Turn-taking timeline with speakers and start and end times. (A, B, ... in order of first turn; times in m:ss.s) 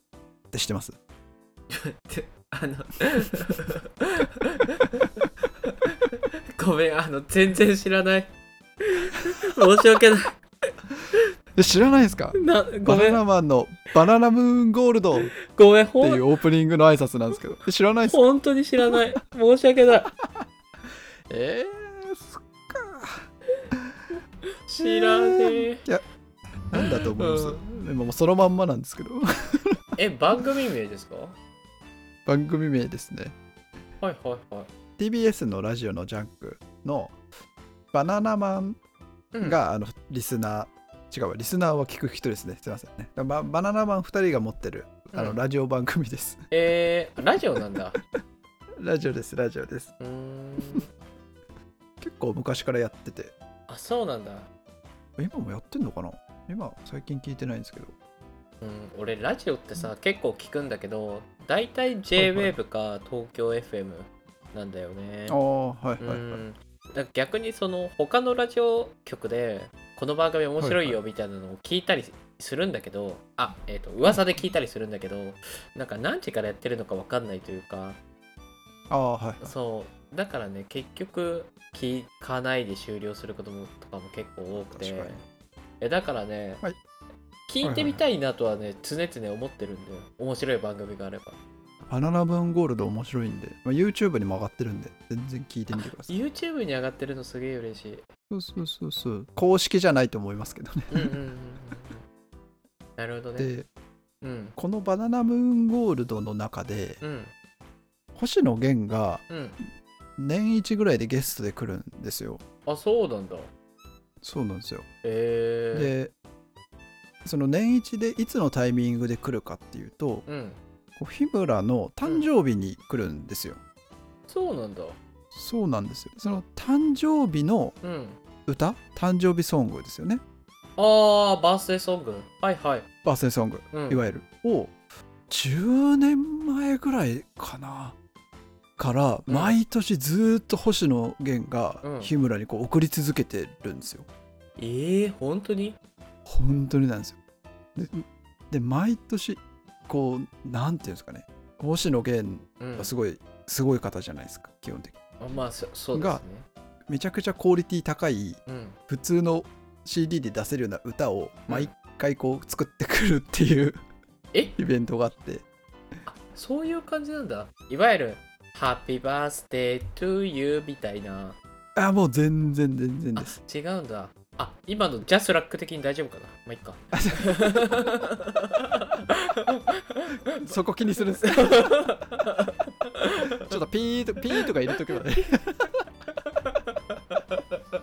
0:00.5-0:01.0 A
0:01.7-0:08.3 B
0:08.8-0:10.4 B
0:11.6-0:15.3 A
0:12.3-0:13.2 B
0:15.2-0:16.4 B
0:16.0-0:18.2 A
0:18.1-0:20.1 B
0:21.3-0:23.3 A
0:24.7-0:25.8 B
0:24.8-0:26.0 A
0:26.7-0:30.0 A
0:26.8-0:27.6 B
0:30.0-0:31.4 B
0:32.3-0:33.4 A
0:34.0-0:34.7 B
0:35.0-0:37.2 A
0:37.9-0:38.8 A
0:39.3-0:39.6 B
0:39.4-0:46.5 A
0:45.1-0:45.4 B
0:46.5-0:48.0 B
0:48.8-0:49.9 A
0:50.0-0:50.9 B
0:52.0-0:53.3 A
0:53.7-0:54.5 B
0:55.2-0:57.9 A
0:58.6-1:05.4 B
1:02.2-1:02.5 A
1:05.3-1:06.4 A
1:06.0-1:18.0 B
1:10.6-1:11.0 A
1:18.9-1:19.5 A
1:19.4-1:25.2 B
1:24.7-1:25.2 A
1:25.8-1:26.6 B
1:27.5-1:31.4 B
1:27.6-1:28.0 A
1:31.9-1:36.2 A
1:35.7-1:38.1 B
1:38.3-1:41.1 A
1:40.9-1:42.0 B
1:43.0-1:43.5 B
1:43.4-1:43.7 A
1:44.2-1:44.6 B
1:44.6-1:47.0 A
1:47.0-1:47.3 B
1:48.2-1:49.2 A
1:49.3-1:49.6 B
1:50.2-1:52.4 A
1:52.7-1:53.5 B
1:54.2-1:54.9 A
1:55.0-1:55.9 B
1:55.7-1:56.1 A
1:57.2-2:00.3 A
2:00.3-2:00.6 B
2:01.0-2:03.6 A
2:04.3-2:05.0 B
2:05.3-2:07.8 A
2:07.8-2:08.2 B
2:08.5-2:10.2 A
2:10.8-2:12.9 B
2:13.0-2:14.8 A
2:13.7-2:14.0 B
2:15.3-2:18.0 A
2:18.8-2:24.1 A
2:19.3-2:19.6 B
2:21.8-2:22.1 B
2:24.6-2:25.8 B
2:26.3-2:27.2 A
2:27.8-2:35.0 A
2:32.6-2:32.9 B
2:35.2-2:36.5 B
2:35.9-2:36.2 A
2:36.9-2:43.8 A
2:38.5-2:38.8 B
2:41.5-2:41.7 B
2:44.6-2:45.5 A
2:46.1-2:51.4 B
2:51.8-2:53.4 A
2:53.2-3:00.5 B
2:56.9-2:57.6 A
3:00.4-3:01.8 A
3:01.4-3:03.5 B
3:03.4-3:05.7 A